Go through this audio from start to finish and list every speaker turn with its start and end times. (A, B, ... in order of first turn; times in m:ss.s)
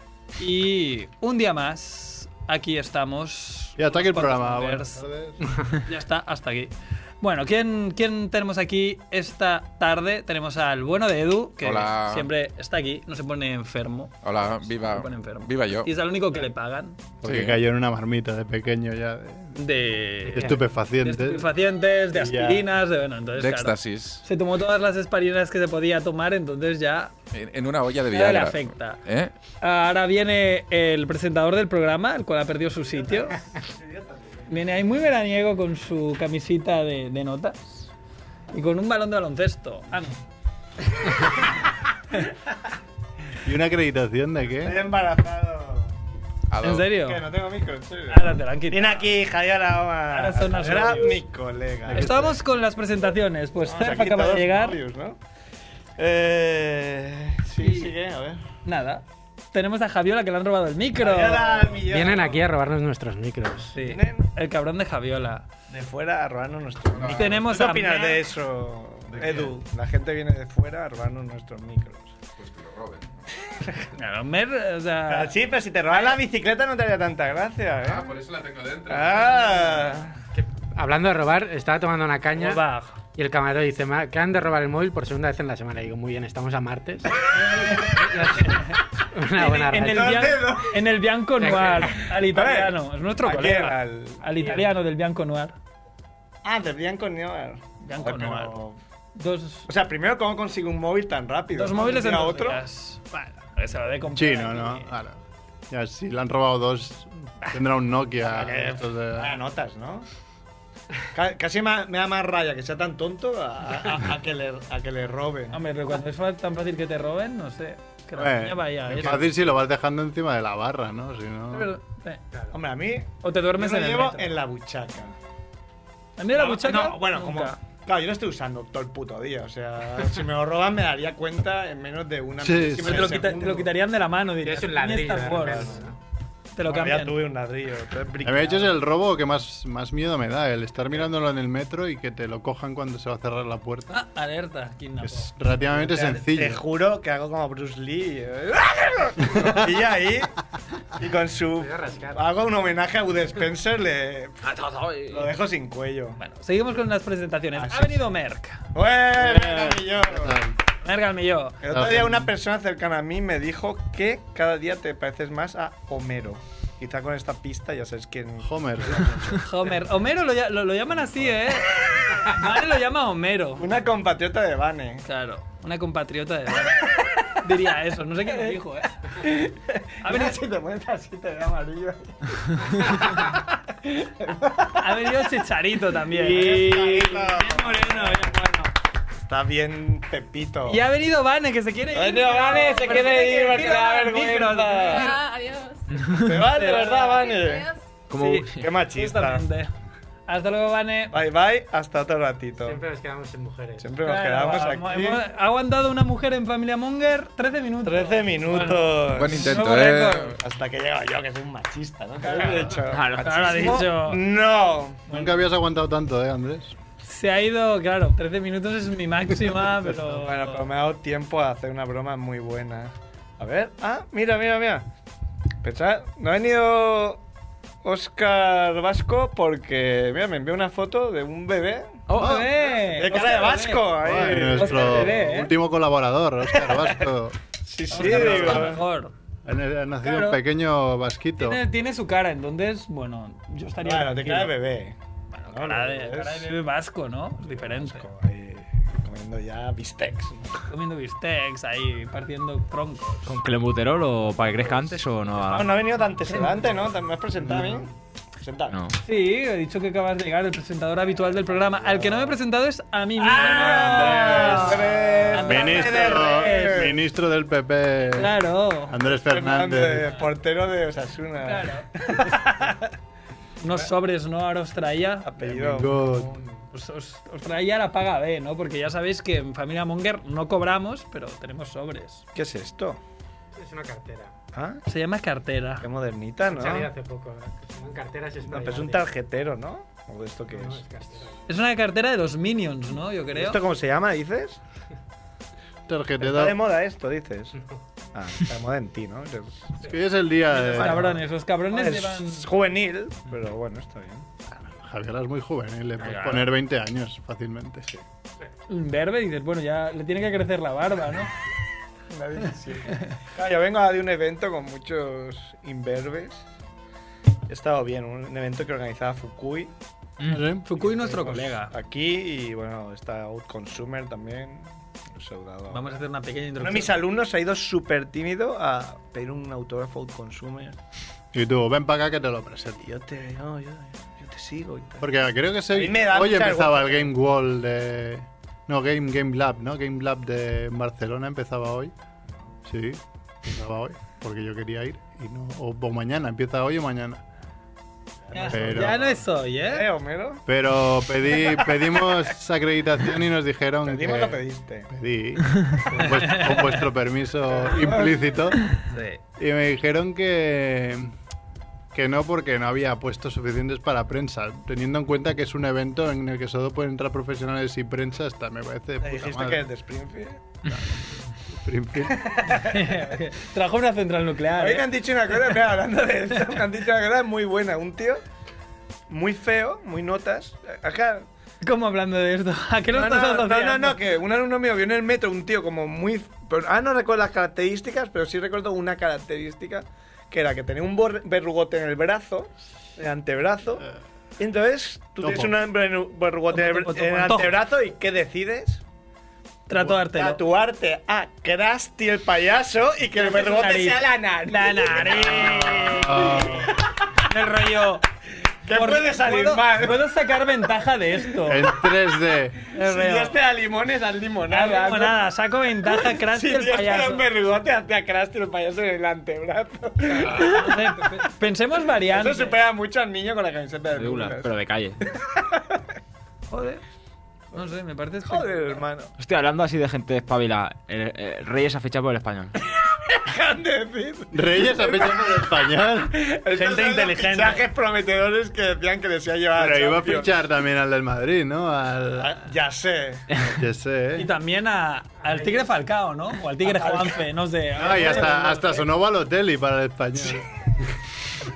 0:00.4-0:05.0 A
0:03.8-0:05.4 B
0:05.7-0:17.0 A
0:11.6-0:12.3 C
0:14.2-0:15.9 C
0:17.2-0:19.6 B
0:17.2-0:17.6 C
0:19.6-0:27.1 A
0:20.3-0:21.4 B
0:22.1-0:22.6 B
0:23.4-0:24.2 C
0:27.3-0:29.3 C
0:28.1-0:29.0 A
0:29.6-0:33.4 A
0:32.9-0:34.5 D
0:34.5-0:37.6 A
0:38.5-0:40.2 A
0:41.0-0:41.3 A
0:43.4-0:44.8 B
0:44.6-0:45.9 D
0:46.5-0:46.9 C
0:46.6-0:47.2 A
0:46.9-0:52.3 D
0:48.1-0:49.1 A
0:50.1-0:51.2 A
0:51.9-0:52.3 B
0:51.9-0:54.8 A
0:53.6-0:55.2 D
0:56.0-0:58.4 D
0:57.6-0:57.9 A
0:58.6-1:01.8 A
1:01.0-1:02.5 D
1:01.9-1:03.7 E
1:03.7-1:05.5 A
1:03.8-1:04.3 D
1:05.7-1:12.2 D
1:06.9-1:07.4 C
1:07.2-1:08.2 A
1:09.2-1:09.5 C
1:12.4-1:13.2 C
1:14.0-1:15.4 A
1:15.1-1:18.2 D
1:15.9-1:16.2 A
1:17.8-1:19.7 C
1:18.9-1:20.2 D
1:20.4-1:22.6 E
1:22.4-1:23.0 A
1:23.1-1:27.2 E
1:27.4-1:28.8 A
1:27.6-1:28.0 D
1:27.9-1:30.3 E
1:29.3-1:35.6 A
1:29.8-1:30.8 D
1:31.4-1:31.9 E
1:31.5-1:34.5 D
1:36.4-1:38.8 D
1:37.8-1:38.6 A
1:39.2-1:39.7 A
1:39.7-1:42.6 D
1:41.5-1:44.9 A
1:44.2-1:45.2 B
1:45.7-1:49.4 B
1:48.2-1:50.1 D
1:51.1-1:55.6 D
1:55.5-1:59.4 A
1:58.2-2:01.7 B
2:01.5-2:02.2 A
2:02.5-2:05.2 D
2:03.2-2:04.3 A
2:06.2-2:07.6 A
2:06.4-2:13.7 D
2:12.4-2:13.2 B
2:12.8-2:15.8 A
2:14.4-2:15.9 E
2:15.3-2:15.8 D
2:16.5-2:17.2 A
2:16.6-2:18.8 D
2:18.2-2:24.0 B
2:23.9-2:26.2 A
2:25.0-2:26.6 B
2:26.0-2:30.3 D
2:31.0-2:34.4 D
2:31.6-2:32.2 E
2:34.4-2:35.3 F
2:35.1-2:36.2 D
2:36.2-2:39.8 A
2:37.6-2:38.0 D
2:38.7-2:40.4 D
2:40.1-2:40.6 B
2:40.8-2:41.6 A
2:41.6-2:49.1 D
2:41.7-2:42.3 B
2:48.4-2:49.4 B
2:49.4-2:53.6 A
2:53.6-2:55.0 D
2:55.0-2:59.2 A
2:58.3-2:58.6 D
2:59.1-3:05.2 D
3:00.0-3:00.4 A
3:04.8-3:08.7 A
3:06.1-3:08.4 D
3:09.2-3:10.8 D
3:10.7-3:15.3 A
3:11.9-3:15.2 D
3:16.1-3:17.3 A
3:16.1-3:17.8 D
3:18.1-3:18.7 F
3:18.2-3:19.7 A
3:18.6-3:19.4 D
3:20.3-3:21.2 A
3:21.1-3:22.8 D
3:22.6-3:23.8 E
3:23.8-3:25.2 D
3:24.0-3:30.4 A
3:27.8-3:29.6 D
3:29.1-3:30.4 C
3:30.4-3:35.1 D
3:32.9-3:33.8 F
3:33.2-3:34.2 A
3:35.1-3:36.8 B
3:37.0-3:40.7 A
3:39.8-3:44.9 D
3:45.6-3:47.2 D
3:47.8-3:52.0 D
3:52.1-3:52.4 F
3:52.1-3:53.9 A
3:52.2-3:52.6 B
3:52.7-3:55.2 D
3:54.0-3:57.4 B
3:54.5-3:55.5 A
3:56.6-3:57.0 D
3:57.6-3:58.8 D
3:57.9-3:59.1 A
3:58.0-3:58.8 B
3:59.4-4:01.6 B
4:00.0-4:00.4 A
4:01.4-4:04.5 A
4:03.8-4:05.0 D
4:05.3-4:08.1 A
4:05.5-4:06.5 D
4:07.6-4:10.6 D
4:10.7-4:13.3 A
4:13.3-4:15.8 F
4:15.5-4:18.8 D
4:17.4-4:17.9 B
4:18.7-4:19.0 F
4:19.0-4:26.9 A
4:21.6-4:22.4 D
4:23.2-4:27.0 D
4:23.9-4:24.7 B
4:25.4-4:30.1 B
4:28.2-4:29.0 A
4:29.1-4:32.8 D
4:31.4-4:32.6 A
4:33.6-4:35.3 A
4:35.2-4:36.5 D
4:35.4-4:36.3 B
4:36.7-4:42.2 A
4:42.4-4:43.0 D
4:43.5-4:44.3 E
4:44.5-4:44.8 D
4:44.9-4:45.9 A
4:45.8-4:46.9 D
4:46.5-4:49.1 E
4:48.5-4:50.8 D
4:50.5-4:51.3 E
4:51.5-4:53.6 A
4:53.3-4:54.6 D
4:55.9-4:56.6 B
4:56.2-4:57.6 D
4:58.1-5:00.0 D
4:59.8-5:01.2 B
5:00.5-5:02.5 A
5:00.6-5:04.3 D
5:04.7-5:07.9 B
5:06.1-5:06.4 A
5:08.7-5:11.3 A
5:12.1-5:16.4 D
5:17.5-5:19.7 D
5:20.3-5:20.7 B
5:20.6-5:21.7 A
5:20.8-5:26.0 D
5:25.7-5:26.9 A
5:26.6-5:30.8 D
5:31.3-5:32.8 B
5:32.8-5:35.1 D
5:35.0-5:41.9 B
5:35.7-5:37.1 D
5:42.7-5:47.2 B
5:48.3-5:50.4 D
5:48.3-5:49.9 A
5:48.4-5:49.1 B
5:50.5-5:58.8 B
5:53.8-5:54.9 D
5:55.9-5:56.8 A
5:57.6-5:58.2 D
5:58.7-5:59.2 A
5:59.4-6:01.1 B
6:01.9-6:09.7 B
6:09.0-6:10.4 D
6:10.7-6:12.3 B
6:12.2-6:13.1 D
6:12.5-6:14.8 A
6:14.6-6:18.2 D
6:19.1-6:21.3 D
6:21.6-6:24.0 A
6:22.9-6:33.8 D
6:34.4-6:38.8 D
6:35.2-6:35.6 B
6:36.5-6:37.5 A
6:39.7-6:40.4 A
6:39.8-6:47.2 D
6:43.2-6:46.7 A
6:45.8-6:46.7 B
6:47.2-6:48.0 A
6:48.6-6:50.1 D
6:48.7-6:51.7 A
6:51.5-6:52.6 B
6:52.7-6:53.4 A
6:52.8-6:55.2 D
6:54.5-6:57.3 A
6:55.8-7:01.1 D
7:00.1-7:02.6 A
7:02.1-7:04.5 D
7:04.0-7:05.0 F
7:05.1-7:05.8 D
7:06.5-7:06.8 A
7:07.5-7:08.8 A
7:08.2-7:09.1 D
7:09.2-7:12.5 F
7:12.9-7:15.5 D
7:14.3-7:16.2 B
7:16.1-7:20.3 D
7:16.6-7:17.6 A
7:19.5-7:22.4 B
7:22.2-7:23.4 D
7:23.5-7:24.3 B
7:24.2-7:28.8 A
7:26.6-7:27.2 D
7:27.8-7:30.5 B
7:27.8-7:28.4 D